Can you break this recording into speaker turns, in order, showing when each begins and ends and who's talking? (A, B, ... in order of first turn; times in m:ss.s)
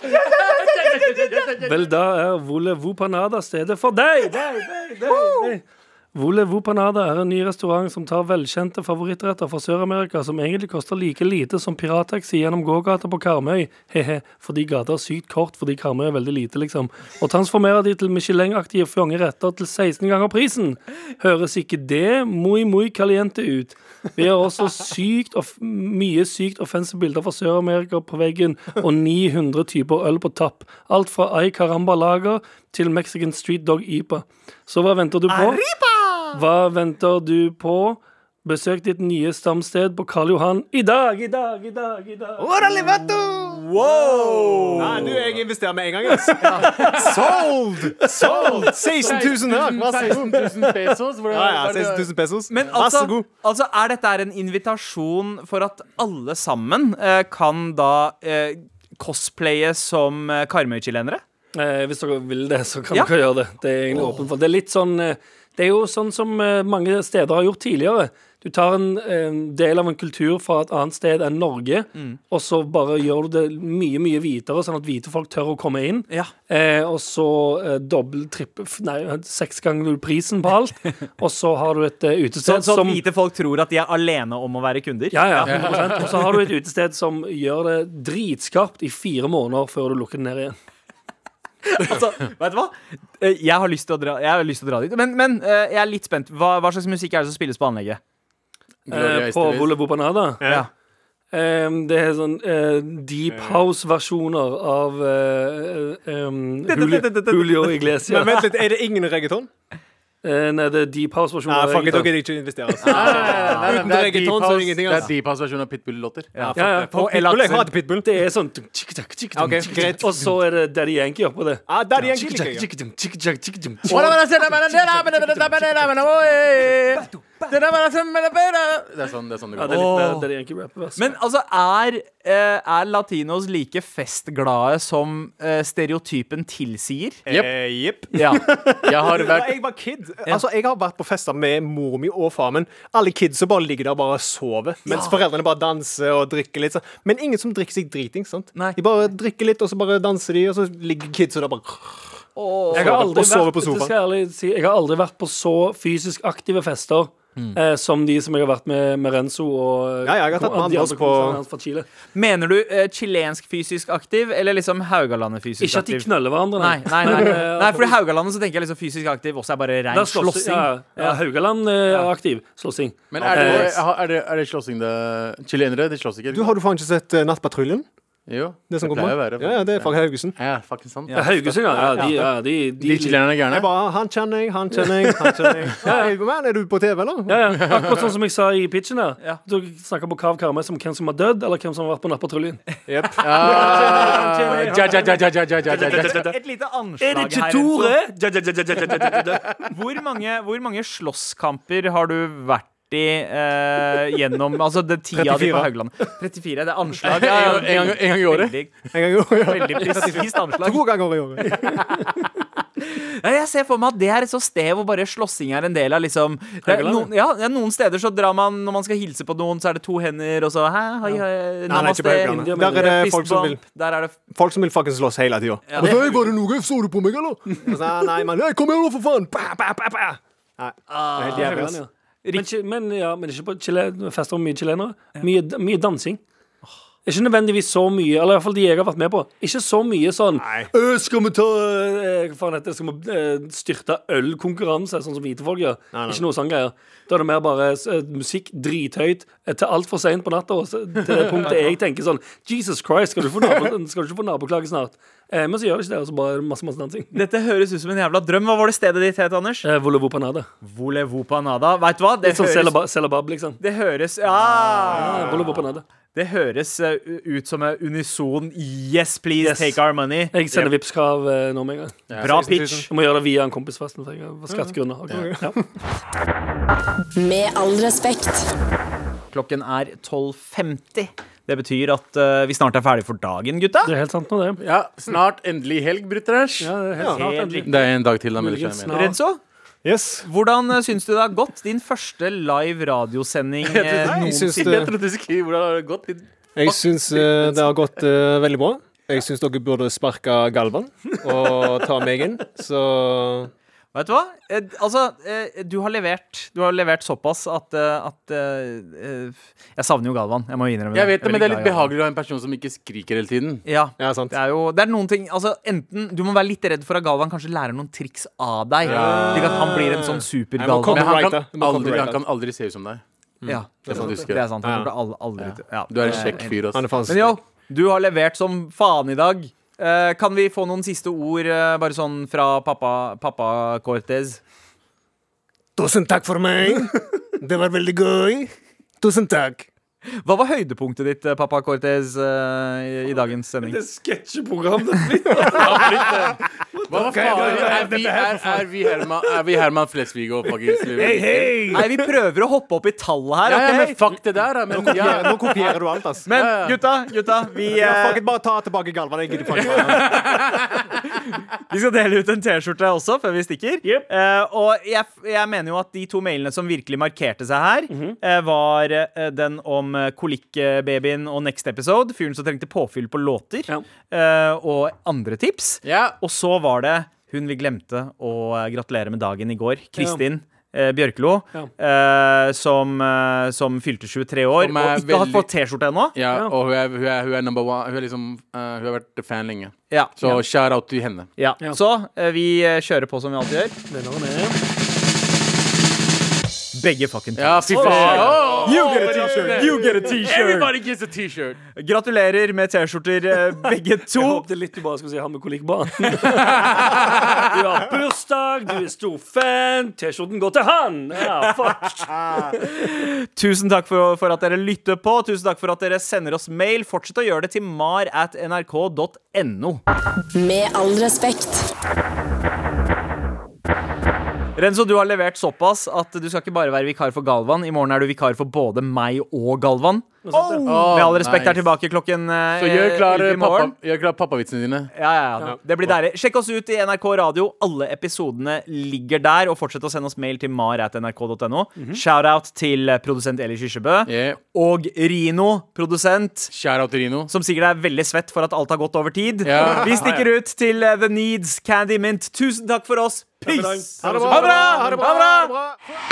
0:00.6-0:01.9 A
0:01.6-0:35.6 B
0:35.3-0:36.4 C
0:36.3-0:42.6 B
0:42.4-0:53.3 D
0:43.5-0:45.2 C
0:46.4-0:47.2 C
0:46.6-0:52.1 A
0:48.0-0:48.6 B
0:48.1-0:48.8 C
0:52.5-1:01.2 C
1:01.6-1:23.0 B
1:11.9-1:12.2 C
1:22.4-1:26.1 C
1:25.1-1:30.6 B
1:25.5-1:26.5 A
1:31.6-1:38.0 C
1:38.9-1:39.7 A
1:38.9-1:40.5 B
1:41.3-1:48.4 B
1:43.3-1:43.6 D
1:46.7-1:47.8 C
1:48.1-1:49.5 D
1:50.2-1:52.2 B
1:51.5-1:55.1 D
1:52.8-1:53.7 C
1:52.8-1:56.5 A
1:56.4-1:57.7 C
1:56.4-1:58.1 D
1:56.6-1:57.0 B
1:58.0-2:05.6 B
1:59.4-2:00.4 D
2:01.7-2:02.7 D
2:03.9-2:09.9 A
2:09.6-2:11.1 B
2:09.7-2:10.3 C
2:11.0-2:17.2 C
2:17.3-2:33.9 D
2:18.1-2:18.4 C
2:18.4-2:19.6 A
2:24.9-2:25.2 C
2:32.4-2:33.1 C
2:32.7-2:41.9 B
2:40.0-2:41.4 D
2:42.1-2:51.2 C
2:45.6-2:48.0 B
2:49.9-2:53.8 B
2:53.1-2:56.5 A
2:53.2-2:53.7 C
2:56.3-2:57.9 D
2:58.3-3:03.7 A
2:58.7-3:00.4 D
3:01.1-3:03.2 B
3:03.5-3:07.6 D
3:04.8-3:06.1 B
3:07.3-3:12.6 B
3:12.9-3:14.2 D
3:13.2-3:16.3 A
3:13.3-3:15.1 C
3:14.0-3:16.4 B
3:15.7-3:18.0 C
3:17.0-3:19.6 B
3:19.7-3:28.8 C
3:25.1-3:25.7 D
3:27.0-3:28.6 A
3:28.9-3:31.8 D
3:29.3-3:30.8 C
3:31.5-3:32.1 C
3:32.8-3:44.2 C
3:36.6-3:37.1 B
3:41.7-3:43.0 B
3:41.7-3:43.6 D
3:44.3-3:51.8 D
3:45.7-3:46.2 C
3:50.9-3:51.7 C
3:51.3-3:56.2 B
3:57.1-4:17.2 B
4:00.4-4:00.7 D
4:05.9-4:06.2 D
4:17.1-4:19.7 C
4:19.6-4:20.5 B
4:20.6-4:22.8 C
4:22.2-4:23.6 B
4:23.6-4:25.4 C
4:24.9-4:25.8 B
4:24.9-4:25.6 D
4:26.1-4:30.7 C
4:29.4-4:29.8 B
4:30.3-4:32.0 B
4:32.1-4:32.4 A
4:32.2-4:32.9 C
4:32.2-4:32.9 D
4:32.9-4:35.6 B
4:34.5-4:35.3 D
4:37.1-4:38.5 E
4:39.3-4:43.9 C
4:43.8-4:44.6 B
4:44.6-4:46.7 A
4:46.6-4:49.2 B
4:47.1-4:47.8 C
4:47.6-4:49.0 A
4:48.9-4:49.4 C
4:49.8-4:50.3 D
4:50.2-4:54.9 C
4:53.6-4:57.9 A
4:54.0-4:54.9 D
4:56.6-5:03.5 D
5:03.9-5:11.9 C
5:10.9-5:13.6 A
5:13.6-5:21.1 C
5:14.0-5:14.4 D
5:18.8-5:22.2 D
5:18.9-5:19.8 A
5:20.9-5:23.0 A
5:23.4-5:24.9 D
5:23.4-5:34.4 C
5:23.8-5:24.4 A
5:25.9-5:26.8 A
5:26.0-5:27.4 D
5:35.8-5:39.7 D
5:40.2-5:43.8 C
5:43.6-5:46.2 B
5:45.5-5:51.8 A
5:45.8-5:46.1 D
5:46.8-5:47.9 B
5:46.9-5:48.7 D
5:51.0-5:51.6 D
5:51.0-5:51.8 B
5:51.7-5:54.0 C
5:53.5-5:56.8 A
5:54.7-5:56.3 D
5:56.3-5:58.2 C
5:57.7-6:00.2 D
5:59.5-6:00.9 A
5:59.7-6:00.8 C
6:01.7-6:26.2 C
6:07.9-6:08.2 B
6:15.8-6:16.2 A
6:20.0-6:20.2 B
6:24.6-6:25.5 A
6:26.1-6:31.3 A
6:29.9-6:30.4 C
6:31.4-6:33.7 C
6:33.9-6:34.6 B
6:36.7-6:40.7 C
6:37.4-6:41.6 A
6:37.7-6:38.8 B
6:41.8-6:44.4 C
6:44.1-6:52.5 B
6:46.2-6:47.5 A
6:51.4-6:59.8 C
7:00.3-7:01.7 E
7:04.6-7:13.7 C
7:10.2-7:11.0 B
7:10.6-7:11.7 A
7:12.6-7:14.9 A
7:14.9-7:26.5 C
7:21.8-7:22.0 B
7:24.1-7:24.4 A
7:26.5-7:27.3 A
7:27.3-7:35.0 C
7:29.4-7:30.2 A
7:29.6-7:30.1 D
7:33.4-7:34.9 B
7:34.0-7:35.8 D
7:34.0-7:35.5 A